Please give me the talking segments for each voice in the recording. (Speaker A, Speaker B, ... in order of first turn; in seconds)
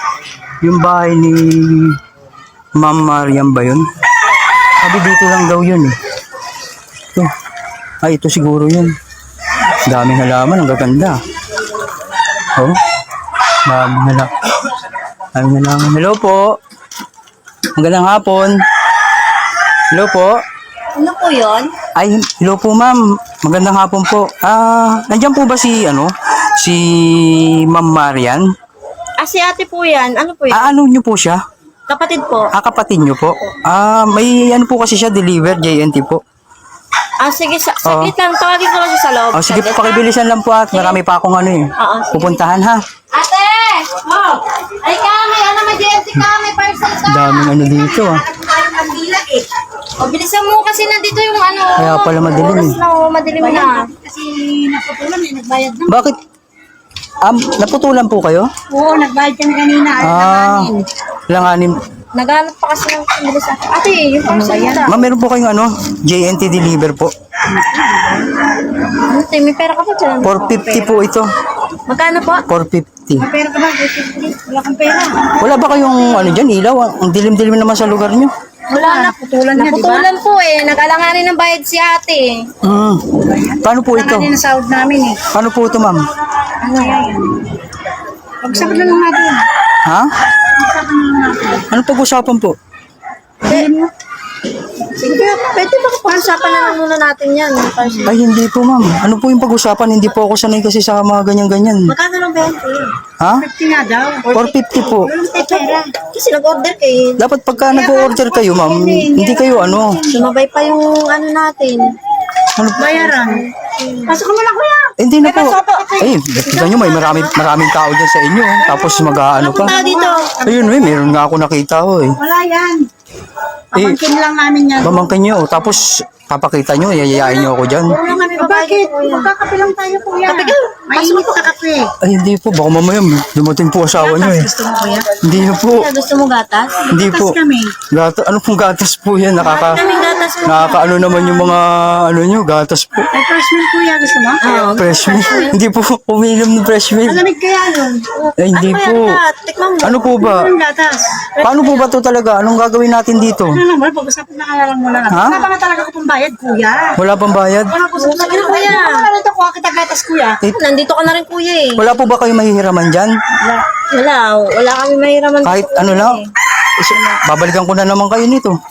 Speaker A: 0.6-2.0, 2.8-3.9, 4.8-6.0, 8.0-9.0, 9.8-11.2, 12.5-12.8, 13.7-14.7, 15.3-16.6, 17.8-18.6, 19.9-20.4, 21.9-28.5, 30.5-31.4, 32.5-36.2, 37.8-38.1, 39.3-42.8, 47.0-48.2, 51.8-52.8, 55.9-56.2, 57.2-58.5, 60.0-60.7, 61.3-61.8, 64.9-67.1, 70.2-71.3, 72.5-73.3, 75.4-78.3, 82.6-84.3, 85.3-86.1, 91.7-92.5, 98.0-102.0, 103.2-103.5, 104.3-105.1, 107.2-110.0, 112.5-112.8, 115.0-119.8, 120.4-122.2, 124.8-128.0, 132.0-134.5, 135.2-135.9, 136.9-137.4, 137.9-139.8, 140.4-143.1, 144.8-147.2, 148.4-149.2, 149.8-150.5, 151.4-153.6, 155.1-155.4, 157.0-157.7, 161.8-163.1, 165.4-166.2, 166.8-168.6
Speaker B: 20.9-21.7, 29.2-30.8, 31.9-32.5, 37.2-40.1, 40.7-41.0, 41.8-42.5, 43.1-47.8, 48.3-49.4, 50.0-53.9, 60.3-60.9, 62.1-65.0, 68.9-71.0, 71.9-72.5, 78.7-82.5, 86.6-87.0, 88.5-89.0, 95.7-98.1, 101.9-102.9, 105.4-107.2, 110.1-111.9, 112.8-114.2, 119.4-120.3, 127.9-129.3, 130.3-131.4, 135.4-136.9, 139.4-141.6, 144.4-145.6, 148.2-150.1, 151.4-151.8, 157.9-159.1, 160.5-161.8, 163.8-166.3
Speaker C: 53.4-56.2, 58.7-60.5, 64.3-65.0, 67.5-68.2, 73.2-75.3, 78.7-80.1, 83.3-85.2, 86.6-87.5, 88.4-89.4, 90.6-91.7, 93.5-93.9, 94.9-96.8, 97.8-98.1, 103.4-105.9, 107.7-110.3, 112.8-113.4, 114.1-117.3, 118.6-121.0, 122.2-122.9, 123.7-125.1, 128.0-131.9, 133.9-135.1, 136.8-137.8, 139.7-140.1, 143.1-144.6, 147.0-148.1, 150.0-151.3, 153.4-157.0, 157.7-160.4